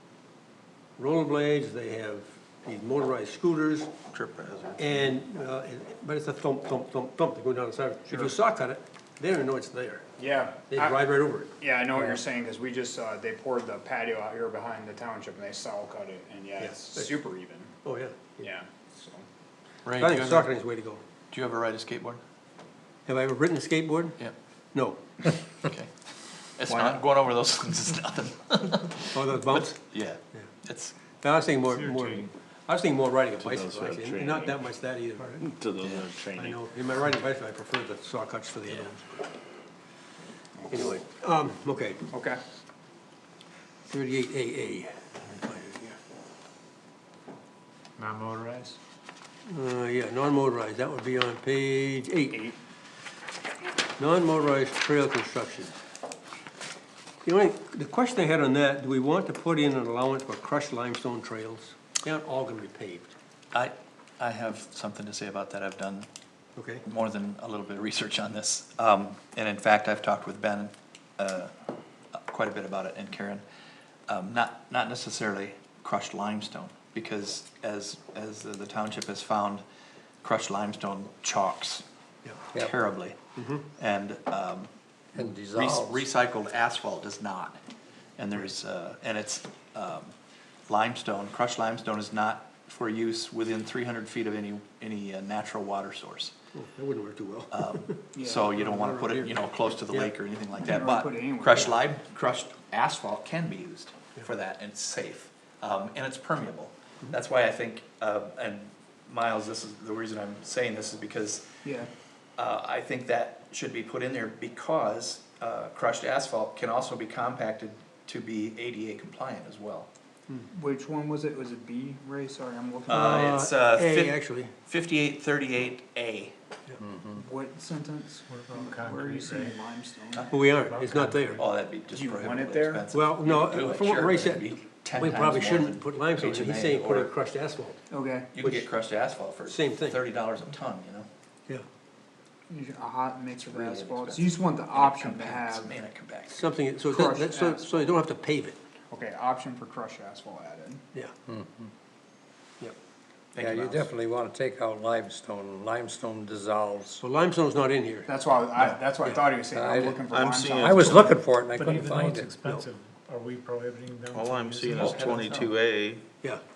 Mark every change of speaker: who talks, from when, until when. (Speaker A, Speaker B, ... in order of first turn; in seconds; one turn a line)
Speaker A: 1.0-3.9
Speaker B: 4.1-5.1
Speaker A: 4.8-10.0
Speaker C: 8.1-8.4
Speaker C: 10.2-11.1
Speaker A: 10.7-12.2
Speaker C: 11.6-17.7
Speaker A: 16.6-17.1
Speaker A: 17.8-18.4
Speaker C: 18.4-19.2
Speaker B: 19.8-20.5
Speaker A: 19.9-21.0
Speaker B: 21.3-22.2
Speaker A: 23.1-24.2
Speaker A: 24.7-25.0
Speaker B: 25.6-25.9
Speaker B: 26.6-30.9
Speaker A: 29.1-29.8
Speaker A: 31.2-35.5
Speaker D: 31.7-32.3
Speaker E: 33.4-34.6
Speaker E: 35.4-36.6
Speaker B: 35.8-36.1
Speaker A: 36.3-39.2
Speaker C: 40.6-40.9
Speaker A: 40.7-42.1
Speaker C: 42.1-42.4
Speaker A: 43.9-46.0
Speaker D: 48.0-48.8
Speaker A: 49.5-52.5
Speaker A: 54.0-55.7
Speaker A: 57.2-63.1
Speaker B: 63.5-66.1
Speaker A: 66.5-66.8
Speaker B: 66.8-71.5
Speaker B: 72.1-73.4
Speaker B: 74.1-79.6
Speaker B: 80.2-81.8
Speaker B: 82.5-83.2
Speaker A: 83.4-83.6
Speaker B: 83.8-84.7
Speaker F: 85.1-86.0
Speaker B: 85.4-87.6
Speaker B: 88.2-90.1
Speaker B: 90.7-96.3
Speaker A: 96.5-98.0
Speaker B: 97.5-111.5
Speaker C: 98.1-98.5
Speaker A: 98.5-100.1
Speaker C: 100.6-101.8
Speaker C: 111.6-111.9
Speaker B: 112.4-119.9
Speaker C: 120.5-123.4
Speaker B: 122.9-126.3
Speaker A: 122.9-124.5
Speaker F: 126.8-127.2
Speaker C: 127.2-130.3
Speaker D: 128.3-129.6
Speaker A: 130.3-131.4
Speaker D: 130.5-131.5
Speaker B: 131.4-137.1
Speaker C: 131.9-132.8
Speaker A: 132.9-137.8
Speaker C: 137.9-138.3
Speaker B: 138.3-141.1
Speaker A: 138.4-138.7
Speaker A: 139.5-140.0
Speaker C: 142.5-145.7
Speaker B: 143.4-146.4
Speaker A: 146.3-148.6
Speaker C: 146.9-148.0
Speaker C: 148.9-150.8
Speaker F: 151.2-151.7
Speaker B: 153.3-153.9
Speaker F: 153.4-157.0
Speaker A: 157.0-158.1
Speaker C: 158.1-161.2
Speaker F: 159.5-162.3
Speaker E: 159.8-161.1
Speaker D: 161.5-165.5
Speaker E: 164.1-166.0
Speaker B: 164.7-165.3